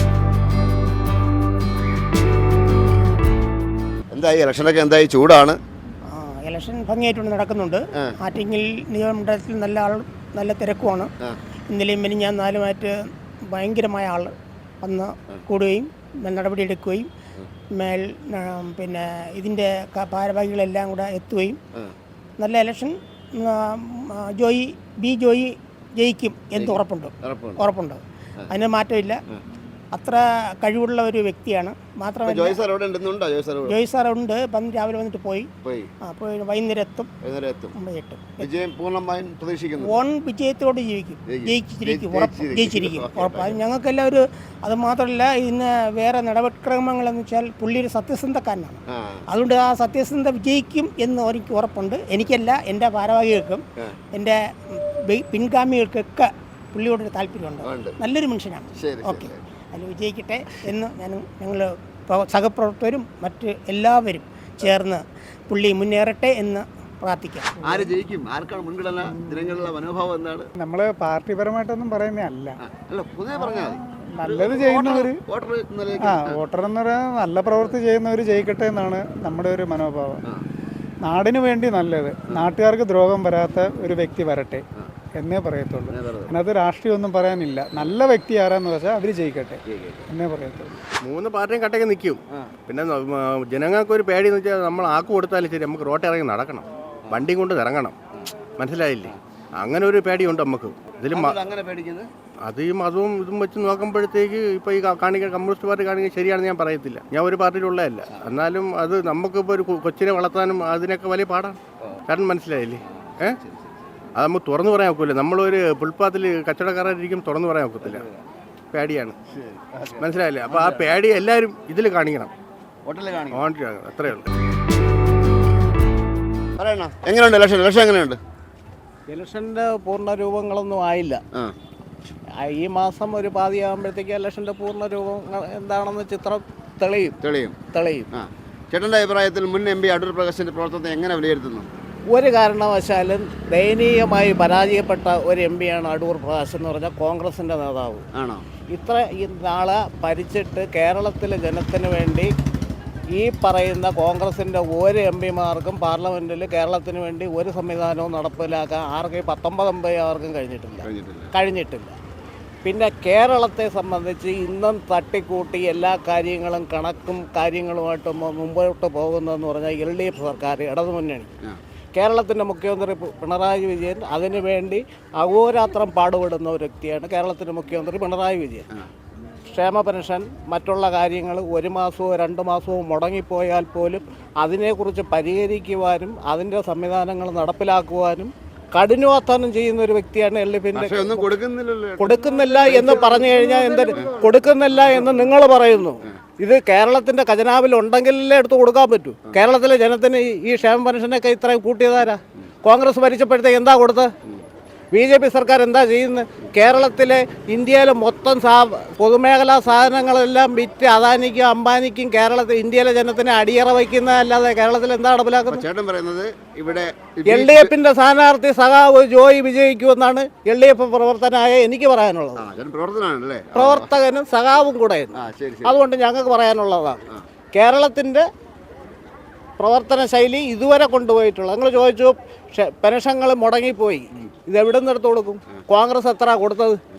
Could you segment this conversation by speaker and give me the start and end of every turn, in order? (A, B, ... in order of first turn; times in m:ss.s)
0:04.1-0:05.6 A
0:06.1-0:11.1 B
0:11.7-0:12.9 B
0:13.5-0:17.1 B
0:17.8-0:21.6 B
0:22.4-0:29.2 B
0:26.5-0:27.6 A
0:29.9-0:32.6 B
0:32.2-0:33.8 A
0:33.7-0:35.5 B
0:35.6-0:35.9 A
0:36.1-0:37.1 B
0:37.2-0:37.7 A
0:37.8-0:38.5 B
0:38.4-0:40.0 A
0:39.9-0:48.8 B
0:41.3-0:43.6 A
0:49.3-0:53.6 B
0:55.1-1:07.5 B
0:57.6-0:58.0 A
0:58.8-0:59.4 A
1:07.6-1:10.5 A
1:10.6-1:12.6 C
1:12.6-1:16.4 A
1:13.4-1:15.2 C
1:16.0-1:20.2 C
1:21.0-1:24.6 C
1:25.2-1:30.7 C
1:25.9-1:26.3 A
1:29.7-1:30.0 A
1:31.0-1:37.9 D
1:38.6-1:41.4 D
1:41.1-1:42.1 A
1:42.5-1:51.6 D
1:52.1-1:53.4 D
1:53.0-1:53.7 A
1:54.2-1:58.0 D
1:58.7-1:59.1 D
1:59.4-2:00.0 A
2:00.0-2:02.3 D
2:02.8-2:03.4 A
2:03.3-2:04.3 D
2:06.6-2:08.2 A
2:09.1-2:11.2 E
2:12.4-2:17.1 E
2:17.2-2:17.6 A
2:17.7-2:18.1 E
2:18.1-2:21.7 A
2:22.1-2:28.0 E
2:28.1-2:28.4 A
2:28.7-2:32.3 E
2:33.1-2:41.9 E
2:40.8-2:41.3 A
2:42.6-2:51.3 E
2:51.9-2:58.7 E
2:59.5-3:11.3 E
3:10.7-3:15.3 A
3:12.0-3:24.1 E
3:24.9-3:35.6 E
3:35.4-3:37.7 A
3:37.3-3:42.4 E
3:42.4-3:43.9 A
3:43.5-3:47.0 E
3:45.1-3:45.8 A
3:47.5-3:48.2 E
3:49.6-3:56.8 E